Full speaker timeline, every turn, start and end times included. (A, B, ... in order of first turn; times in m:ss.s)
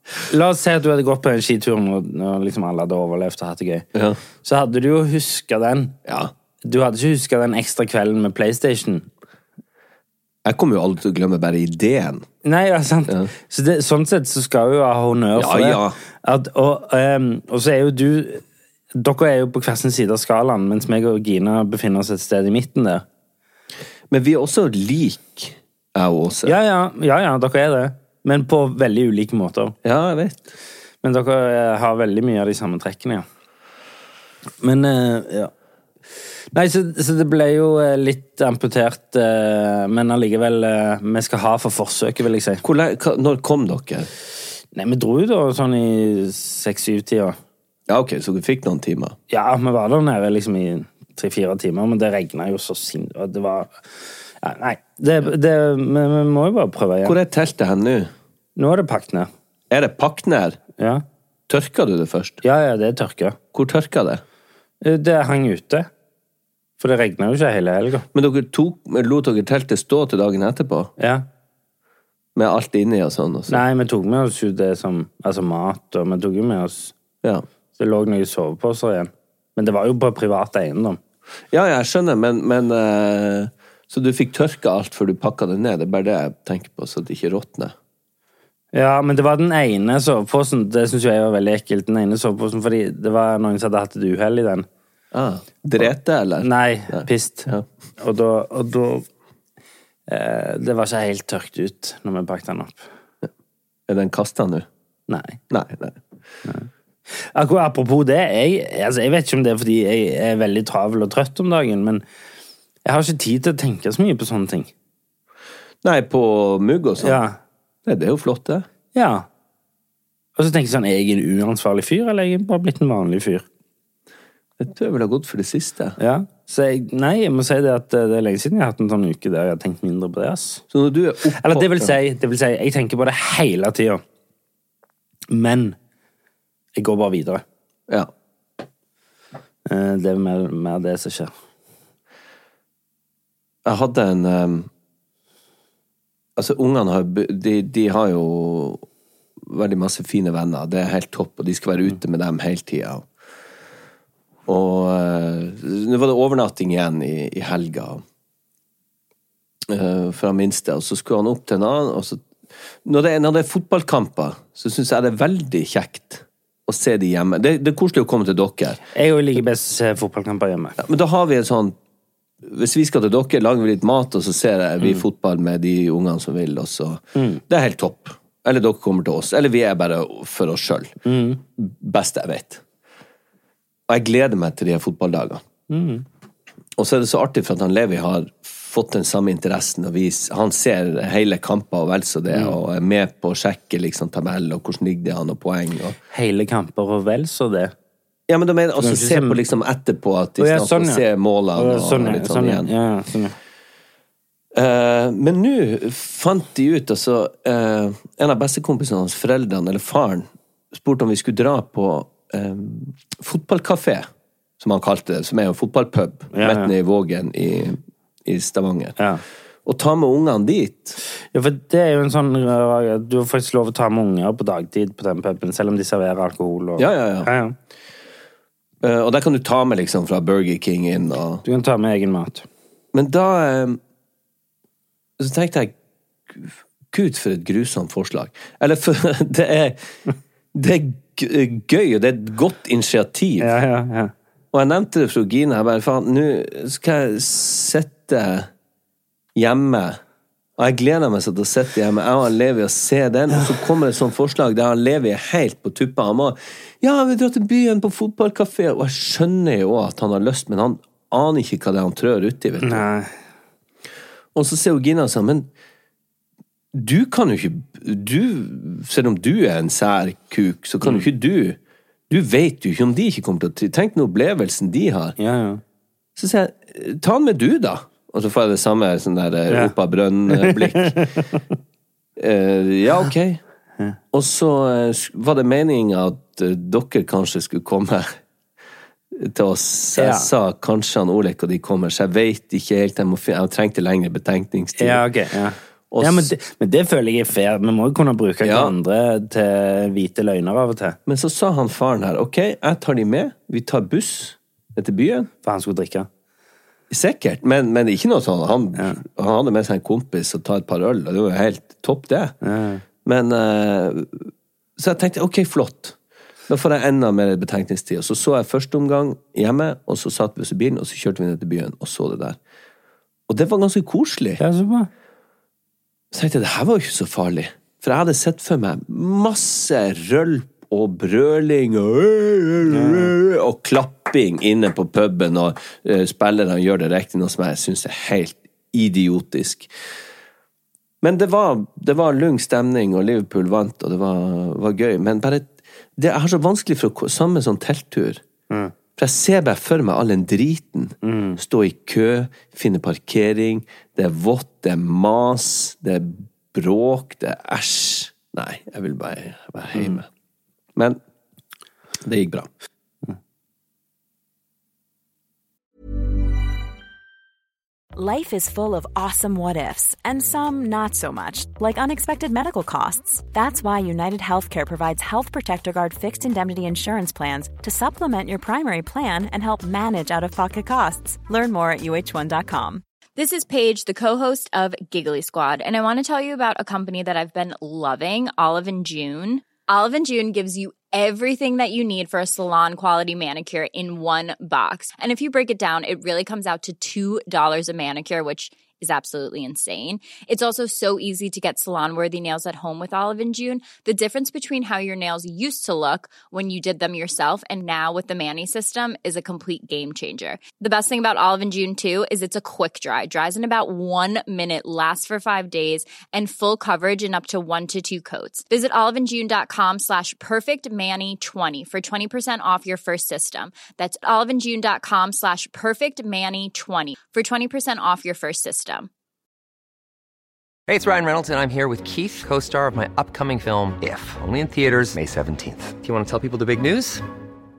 0:00.3-0:03.8 A
0:03.9-0:04.2 B
0:04.4-0:05.9 A
0:06.0-0:06.3 B
0:06.6-0:09.1 A
0:10.4-0:12.2 B
0:12.4-0:18.4 A
0:15.4-0:16.0 B
0:18.9-0:23.0 A
0:24.1-0:26.6 B
0:26.4-0:29.8 A
0:29.8-0:30.5 B
0:31.0-0:33.2 A
0:34.6-0:35.5 A
0:36.5-0:42.6 A
0:42.6-0:44.1 B
0:44.7-0:47.4 A
0:47.9-0:49.2 B
0:49.3-0:53.8 A
0:54.4-0:57.2 A
0:57.0-0:58.1 B
0:58.6-0:59.3 A
0:59.7-1:00.6 B
1:00.8-1:01.0 A
1:01.5-1:02.4 B
1:02.4-1:03.4 A
1:03.5-1:04.2 B
1:04.8-1:05.9 A
1:06.8-1:08.0 A
1:08.1-1:10.9 B
1:11.0-1:11.2 A
1:12.3-1:13.6 B
1:13.5-1:16.9 A
1:17.8-1:21.0 A
1:21.5-1:27.7 B
1:28.7-1:34.7 A
1:35.1-1:37.6 B
1:36.4-1:39.0 A
1:40.1-1:42.8 A
1:43.9-1:44.7 B
1:45.1-1:45.4 A
1:45.5-1:46.0 B
1:47.2-1:52.0 A
1:52.8-1:54.7 A
1:55.8-1:57.2 B
1:57.0-1:57.4 A
1:57.8-1:58.7 B
1:58.9-1:59.2 A
2:00.4-2:03.4 A
2:04.6-2:06.0 B
2:06.0-2:10.6 A
2:10.7-2:12.0 B
2:11.4-2:14.0 A
2:15.3-2:15.8 A
2:16.8-2:17.4 A
2:19.6-2:21.3 A
2:23.6-2:24.7 B
2:26.4-2:28.8 B
2:29.4-2:33.0 B
2:34.4-2:38.0 B
2:39.7-2:42.2 B
2:42.8-2:48.8 B
2:48.9-2:50.8 A
2:50.8-2:51.8 B
2:52.4-3:01.0 B
2:57.2-2:57.4 A
3:01.0-3:01.4 A
3:01.6-3:02.6 B
3:03.9-3:05.4 B
3:05.7-3:06.0 A
3:06.8-3:16.0 B
3:16.1-3:17.7 A
3:18.3-3:22.7 B
3:18.8-3:19.4 A
3:20.4-3:23.4 A
3:24.5-3:34.1 B
3:34.6-3:39.0 B
3:36.3-3:36.7 A
3:39.6-3:41.0 B
3:41.3-3:47.5 A
3:46.8-3:47.3 B
3:48.8-3:51.4 B
3:51.4-3:52.4 A
3:52.9-3:53.8 B
3:55.2-3:55.7 B
3:56.3-3:59.8 B
4:00.5-4:03.6 B
4:03.4-4:04.1 A
4:04.5-4:08.5 B
4:09.3-4:10.0 B
4:10.6-4:22.8 B
4:22.6-4:23.1 A
4:24.3-4:25.5 B
4:26.7-4:31.6 B
4:32.1-4:35.2 B
4:35.2-4:35.6 A
4:36.2-4:41.0 B
4:40.3-4:41.4 A
4:42.2-4:43.4 B
4:44.1-4:48.2 B
4:49.1-4:55.0 B
4:50.0-4:50.3 A
4:54.8-5:01.0 A
4:55.9-4:56.3 B
4:58.4-4:58.7 B
5:01.0-5:05.3 B
5:05.4-5:06.1 A
5:06.9-5:12.3 B
5:12.4-5:12.8 A
5:13.0-5:16.0 B
5:16.5-5:22.4 B
5:23.3-5:24.4 B
5:24.4-5:24.9 A
5:26.1-5:39.7 B
5:32.7-5:33.1 A
5:41.0-5:48.2 B
5:49.0-6:00.1 B
5:51.0-5:51.4 A
6:02.0-6:02.5 B
6:07.9-6:22.8 C
6:23.2-7:08.9 D
7:10.7-7:17.0 E